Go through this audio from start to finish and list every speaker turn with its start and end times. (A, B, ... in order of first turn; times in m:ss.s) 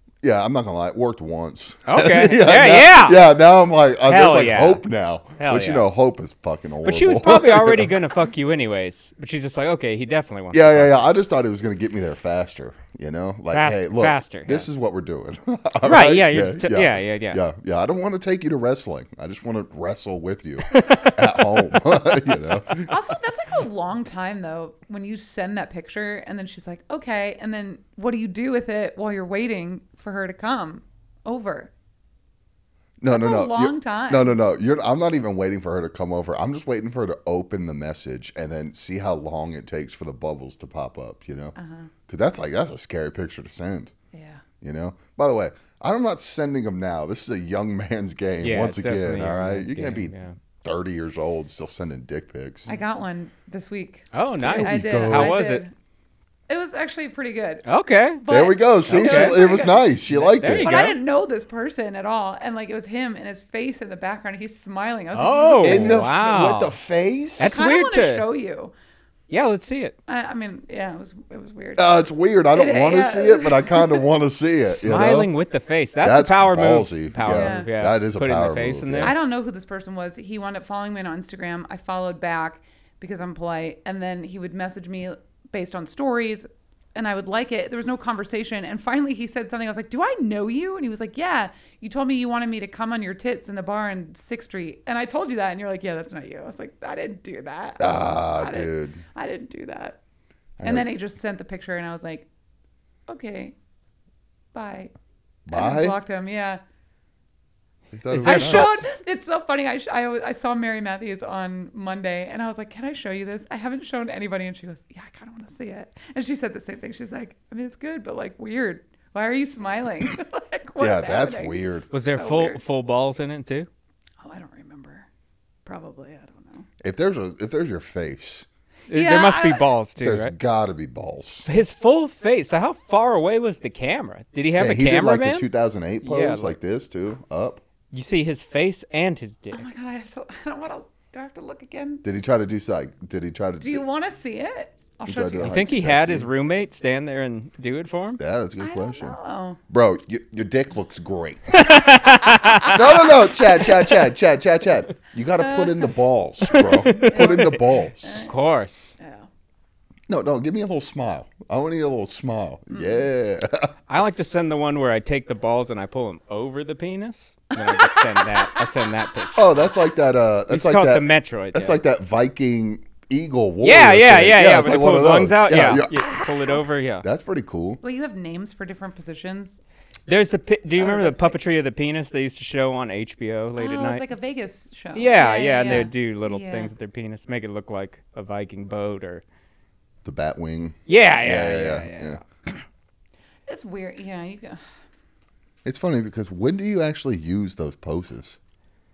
0:00.2-0:08.0 A
0:01.9-0:03.2 B
0:04.1-0:04.8 B
0:05.4-0:05.8 B
0:06.8-0:11.0 B
0:10.5-0:23.0 A
0:13.5-0:14.7 B
0:15.8-0:17.4 B
0:20.7-0:21.2 B
0:22.8-0:31.7 C
0:33.0-0:41.6 A
0:33.1-0:34.4 C
0:41.6-0:41.9 C
0:42.1-0:43.9 A
0:44.1-0:44.4 C
0:44.6-0:52.7 A
0:48.4-0:50.4 B
0:52.7-0:55.7 C
0:54.1-0:55.6 B
0:54.4-0:55.4 A
0:56.5-0:57.6 C
0:57.6-0:58.2 B
0:58.2-0:59.9 C
0:58.3-1:00.7 A
0:58.9-0:59.4 B
1:00.1-1:01.0 B
1:00.5-1:06.1 C
1:05.1-1:06.7 B
1:05.6-1:07.6 A
1:07.4-1:08.3 B
1:07.5-1:08.7 C
1:09.3-1:10.0 B
1:10.1-1:12.0 C
1:11.8-1:15.3 A
1:12.5-1:14.0 C
1:14.6-1:19.1 B
1:16.0-1:19.1 A
1:17.3-1:17.7 C
1:19.0-1:40.0 C
1:37.8-1:39.0 A
1:40.6-1:40.9 A
1:40.6-1:42.3 C
1:43.1-1:43.5 C
1:44.5-1:44.9 C
1:45.5-1:46.0 A
1:45.5-1:46.6 C
1:47.9-1:48.9 A
1:48.1-1:48.8 B
1:48.2-2:02.6 C
2:00.8-2:01.9 A
2:01.9-2:03.7 B
2:04.2-2:05.1 C
2:05.6-2:06.7 C
2:06.8-2:08.5 A
2:08.9-2:10.3 B
2:08.9-2:09.7 C
2:10.0-2:11.5 A
2:11.5-2:15.5 B
2:14.6-2:17.6 A
2:16.0-2:16.6 B
2:17.9-2:19.7 B
2:19.5-2:22.0 C
2:22.0-2:23.8 A
2:23.6-2:25.8 C
2:25.1-2:26.3 A
2:25.4-2:28.2 B
2:28.2-2:29.2 A
2:28.6-2:29.6 C
2:29.7-2:31.6 A
2:31.5-2:32.8 B
2:32.4-2:32.8 C
2:32.7-2:38.3 A
2:35.4-2:35.9 C
2:36.5-2:37.6 B
2:37.0-2:38.3 C
2:38.2-2:39.0 B
2:39.0-2:39.3 C
2:40.1-2:43.7 A
2:42.7-2:43.1 C
2:43.9-2:49.5 B
2:47.8-2:48.7 C
2:49.4-2:56.1 A
2:50.5-2:51.8 B
2:53.6-2:57.1 B
2:56.0-2:56.6 C
2:57.0-2:57.8 A
2:57.8-2:59.6 C
3:00.1-3:04.0 B
3:00.8-3:01.4 C
3:03.6-3:06.7 C
3:04.9-3:09.2 B
3:10.0-3:12.2 A
3:10.9-3:12.6 B
3:13.5-3:14.6 C
3:15.6-3:18.4 A